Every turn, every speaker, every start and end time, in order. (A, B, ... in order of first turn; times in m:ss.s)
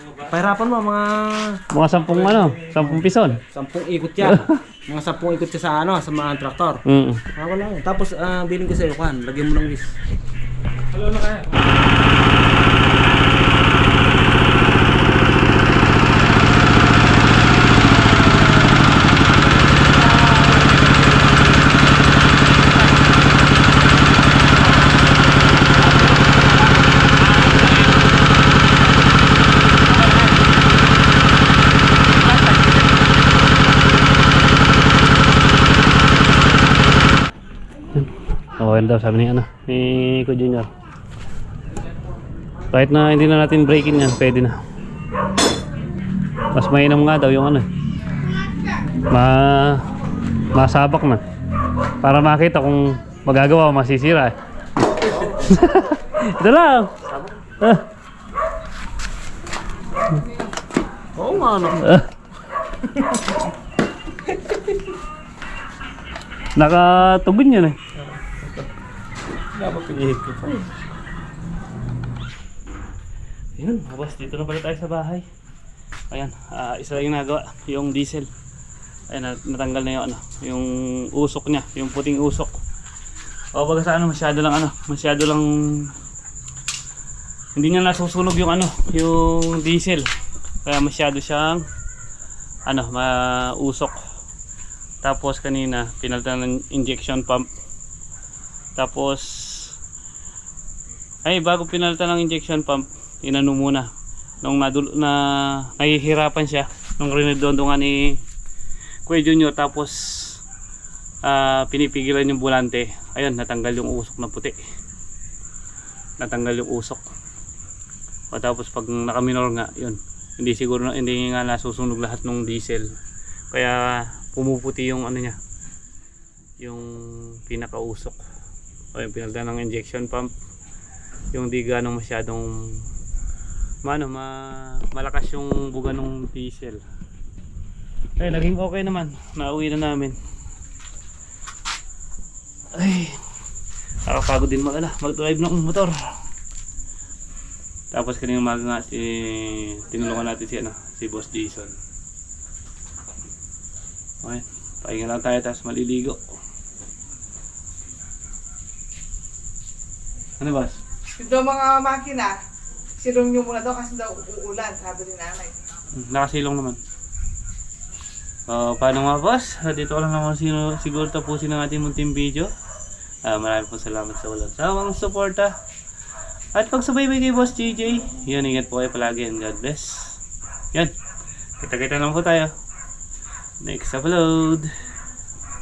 0:00.2-0:06.8 A
0:01.7-0:03.4 B
0:04.2-0:04.5 B
0:06.9-0:07.2 B
0:07.4-0:10.0 A
0:11.0-0:11.5 A
0:37.9-0:40.7 B
0:42.7-0:44.6 B
0:46.5-0:47.7 B
0:49.1-0:49.9 B
0:50.5-0:51.2 B
0:52.0-0:54.4 B
0:55.4-0:57.0 B
1:01.2-1:01.9 A
1:01.8-1:02.1 B
1:06.6-1:07.8 B
1:08.0-1:08.7 A
1:09.6-1:10.7 A
1:13.6-1:15.3 B
1:16.1-1:18.3 B
1:19.1-1:22.6 B
1:23.6-1:25.9 B
1:27.6-1:30.0 B
1:30.6-1:31.6 B
1:32.7-1:34.0 B
1:35.0-1:37.5 B
1:38.8-1:39.8 B
1:41.3-1:43.9 B
1:44.4-1:48.2 B
1:49.1-1:50.4 B
1:51.2-1:54.6 B
1:56.2-1:57.0 B
1:58.3-2:02.9 B
2:03.5-2:05.4 B
2:06.6-2:08.2 B
2:08.9-2:10.3 B
2:11.3-2:12.7 B
2:13.8-2:16.8 B
2:18.2-2:20.2 B
2:22.8-2:23.2 B
2:24.1-2:26.0 B
2:27.9-2:31.7 B
2:34.2-2:36.2 B
2:40.4-2:40.8 B
2:41.2-2:42.4 C
2:43.0-2:45.5 C
2:46.0-2:46.8 B
2:48.5-2:52.5 B
2:53.2-2:55.5 B
2:56.6-3:00.2 B
3:01.6-3:02.5 B
3:03.6-3:04.7 B